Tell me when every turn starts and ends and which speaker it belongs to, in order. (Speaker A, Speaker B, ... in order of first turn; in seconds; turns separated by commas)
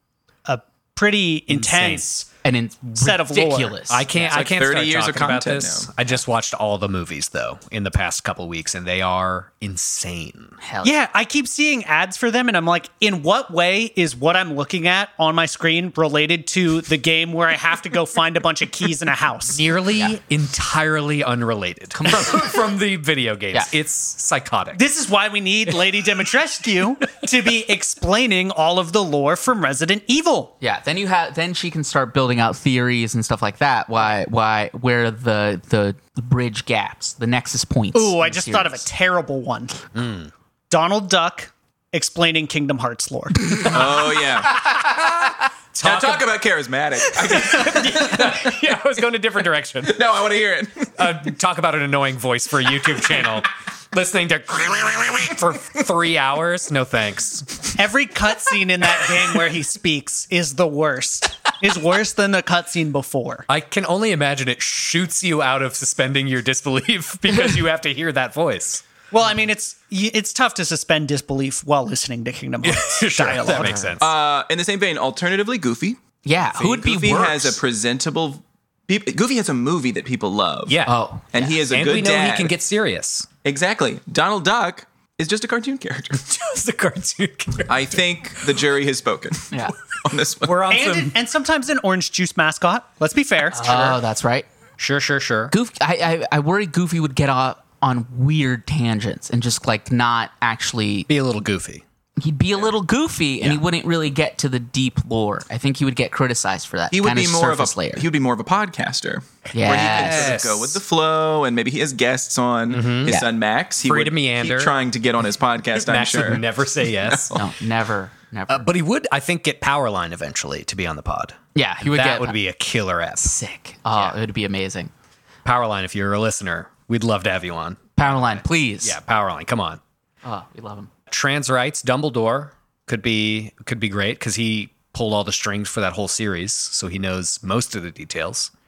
Speaker A: 0.5-2.3, Speaker B: 1.5-2.0, Speaker C: 2.4-4.2, Speaker A: 2.9-3.8, Speaker B: 3.9-10.5, Speaker D: 4.2-5.9, Speaker C: 10.6-10.9, Speaker A: 10.8-19.6, Speaker B: 19.5-24.8, Speaker C: 21.9-22.6, Speaker A: 24.7-30.5, Speaker C: 30.6-38.8, Speaker A: 37.9-39.8, Speaker B: 39.9-40.3, Speaker A: 40.7-43.8, Speaker D: 43.6-44.8, Speaker B: 44.8-46.2, Speaker D: 45.8-48.5, Speaker B: 47.5-50.0, Speaker D: 49.9-50.9, Speaker B: 51.0-57.6, Speaker A: 57.7-63.5, Speaker B: 63.5-68.8, Speaker A: 69.1-73.8, Speaker B: 72.6-74.1, Speaker D: 74.0-76.0, Speaker C: 76.2-77.6, Speaker D: 76.6-80.8, Speaker B: 80.7-81.0, Speaker C: 80.8-81.6, Speaker D: 81.3-82.5, Speaker B: 81.7-83.3, Speaker D: 83.4-86.2, Speaker B: 86.2-88.0, Speaker D: 87.7-90.7, Speaker A: 90.5-94.0, Speaker B: 90.5-91.1, Speaker C: 93.5-94.5, Speaker B: 94.8-95.5, Speaker C: 95.5-101.1, Speaker B: 101.1-101.8, Speaker C: 102.2-108.1, Speaker D: 106.9-116.5, Speaker C: 109.5-110.4, Speaker B: 109.8-110.8, Speaker B: 112.7-113.2, Speaker B: 113.8-114.7, Speaker B: 115.8-117.3, Speaker D: 117.0-117.4, Speaker C: 117.3-118.7, Speaker B: 118.5-123.3, Speaker C: 121.5-122.3, Speaker C: 123.2-124.9, Speaker B: 125.4-129.8, Speaker C: 128.0-129.0, Speaker C: 130.2-130.9, Speaker B: 131.1-138.5